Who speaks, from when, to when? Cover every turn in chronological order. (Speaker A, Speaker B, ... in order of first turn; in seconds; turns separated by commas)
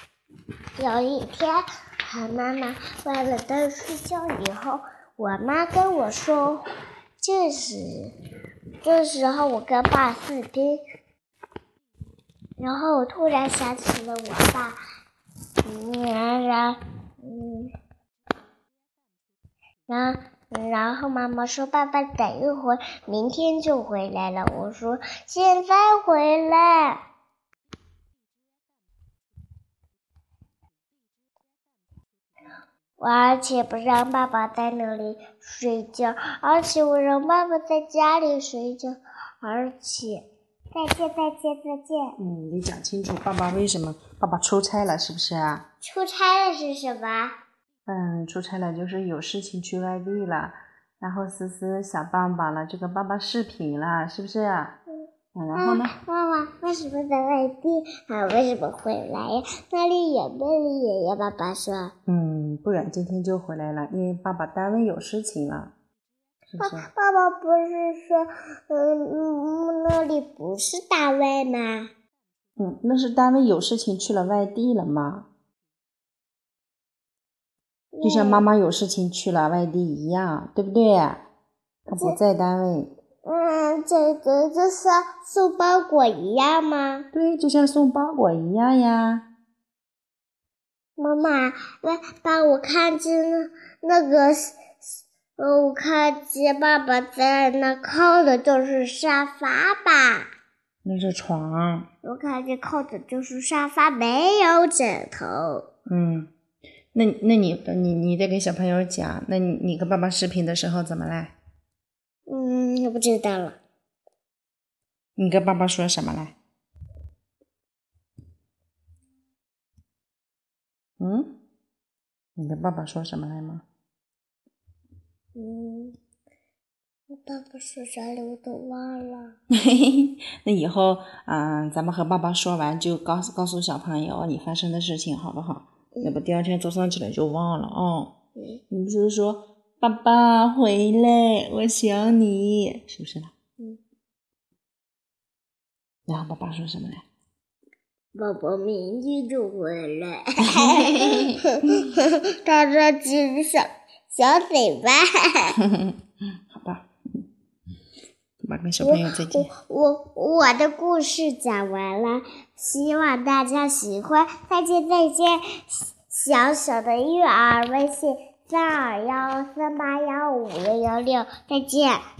Speaker A: 0.8-6.6, Speaker A: 7.2-8.1, Speaker A: 8.8-10.8, Speaker A: 12.6-14.8, Speaker A: 15.6-17.7, Speaker A: 19.9-27.0, Speaker A: 33.0-42.1, Speaker B: 42.2-45.6, Speaker A: 45.8-47.4, Speaker B: 47.9-54.8, Speaker B: 55.3-55.9, Speaker A: 55.5-61.9, Speaker B: 62.1-65.7, Speaker B: 66.5-66.9, Speaker A: 66.6-71.9, Speaker B: 72.6-75.3, Speaker A: 77.9-78.4, Speaker B: 78.0-81.2, Speaker B: 81.9-82.9, Speaker A: 81.9-82.2, Speaker A: 83.2-87.0, Speaker B: 87.1-89.2, Speaker A: 91.0-94.8, Speaker A: 95.4-100.3, Speaker B: 100.8-101.8, Speaker A: 102.0-105.6, Speaker B: 105.9-106.3, Speaker B: 106.9-111.3, Speaker A: 112.3-113.6, Speaker B: 115.2-116.3, Speaker B: 121.0-121.3, Speaker B: 122.4-123.6, Speaker A: 125.3-126.0, Speaker A: 127.1-129.3, Speaker B: 129.5-138.1, Speaker A: 135.9-136.2, Speaker A: 138.3-138.6, Speaker B: 138.7-143.3, Speaker B: 146.1-147.0, Speaker A: 148.1-155.6, Speaker B: 150.6-151.3, Speaker B: 156.5-156.9, Speaker B: 158.4-159.5, Speaker A: 158.8-172.0